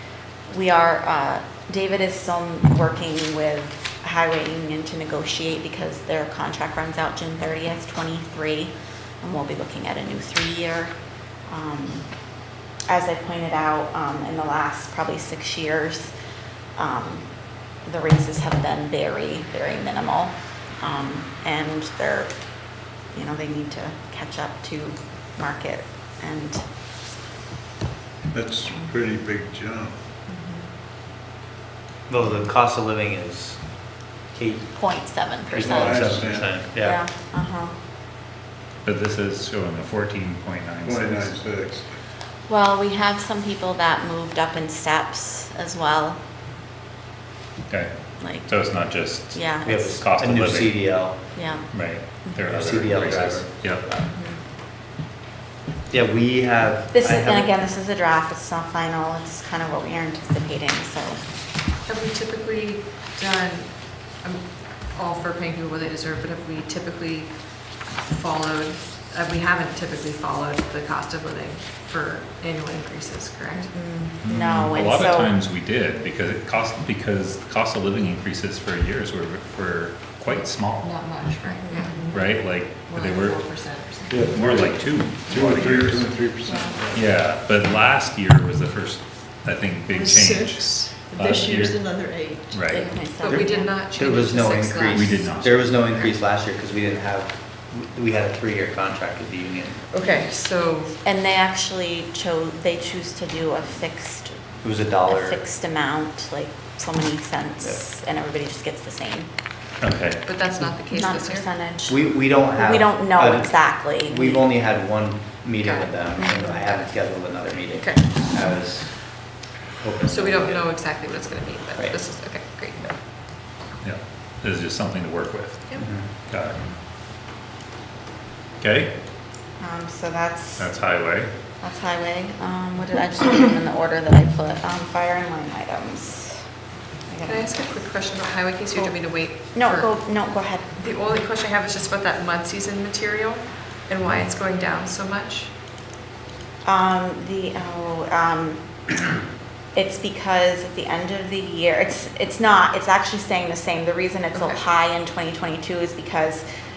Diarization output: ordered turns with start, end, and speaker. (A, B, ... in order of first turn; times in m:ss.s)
0:00.5-0:10.9 A
0:11.5-0:12.1 A
0:12.9-0:16.1 A
0:16.8-0:17.3 A
0:17.8-0:22.3 A
0:23.1-0:26.6 A
0:28.3-0:29.9 B
0:30.3-0:30.7 A
0:32.1-0:37.0 C
0:34.7-0:36.0 A
0:35.6-0:36.5 B
0:36.7-0:37.7 A
0:38.8-0:41.3 D
0:40.8-0:41.9 B
0:42.5-0:46.2 A
0:47.7-0:50.9 D
0:48.2-0:48.5 A
0:49.3-0:49.9 A
0:49.6-0:51.2 C
0:51.3-0:51.7 A
0:51.7-0:53.9 D
0:52.5-0:53.9 C
0:55.9-0:57.5 C
0:56.9-1:01.2 A
1:01.9-1:13.7 E
1:13.6-1:15.3 A
1:14.2-1:21.0 D
1:20.8-1:24.4 E
1:21.6-1:22.2 A
1:22.1-1:23.4 D
1:24.1-1:27.1 B
1:24.3-1:26.2 D
1:26.4-1:26.8 E
1:26.9-1:31.8 D
1:29.9-1:32.6 F
1:32.5-1:32.9 D
1:32.7-1:33.7 A
1:33.0-1:35.3 E
1:33.9-1:39.8 C
1:34.9-1:35.8 D
1:39.9-1:41.0 E
1:41.0-1:44.4 A
1:44.6-1:45.4 C
1:45.1-1:49.3 A
1:49.8-1:50.2 D
1:50.2-1:51.5 E
1:50.9-1:54.5 A
1:51.9-2:00.7 C
1:55.6-1:55.9 E
1:56.2-1:56.6 A
1:57.7-1:58.1 E
2:00.1-2:02.9 E
2:03.8-2:06.6 D
2:05.8-2:06.1 C
2:08.6-2:08.9 D
2:09.6-2:10.7 A
2:10.6-2:11.3 D
2:11.6-2:16.4 A
2:17.1-2:17.5 A
2:17.2-2:19.9 E
2:18.7-2:20.7 A
2:20.8-2:25.5 E
2:26.6-2:28.8 A
2:29.7-2:36.4 A
2:34.3-2:34.6 E